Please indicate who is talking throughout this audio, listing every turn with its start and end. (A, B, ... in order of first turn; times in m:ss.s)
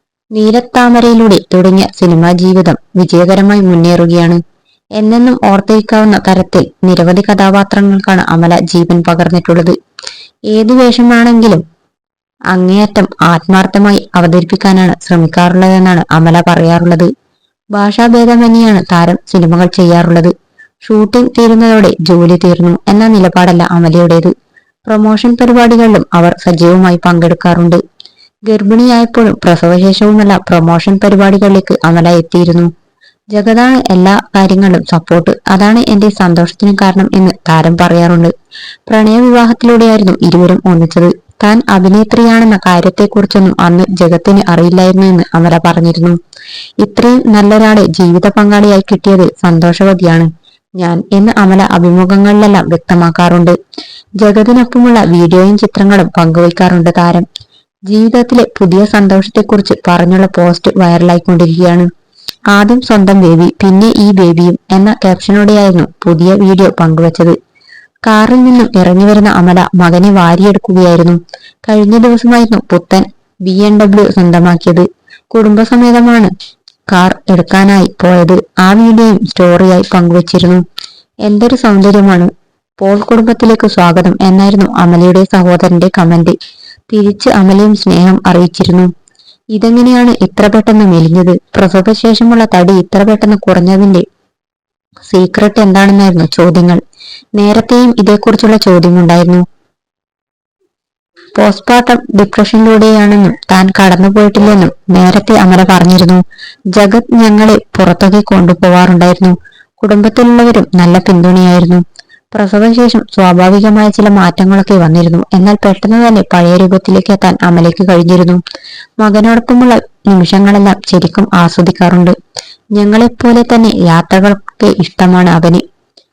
0:00.4-0:04.4 A
0:05.0-0:09.8 A
0:10.5-0:11.6 A
0:12.5-0:17.1 A
0:17.7-0:20.3 A
0:20.8-0:24.3 A
0:24.9-0:27.8 A
0:28.5-0:32.7 A
0:33.3-0:38.3 A
0:38.9-0:46.2 A
0:46.8-0:53.6 A
0:54.2-0:57.3 A
0:57.9-1:01.9 A
1:02.5-1:07.4 A
1:08.1-1:16.3 A
1:16.9-1:20.6 A
1:21.3-1:26.4 A
1:26.9-1:28.9 A
1:29.6-1:34.0 A
1:35.1-1:36.8 A
1:37.4-1:39.4 A
1:41.4-1:46.2 A
1:46.7-1:51.8 A
1:52.3-1:58.4 A
1:59.0-2:02.1 A
2:02.8-2:05.6 A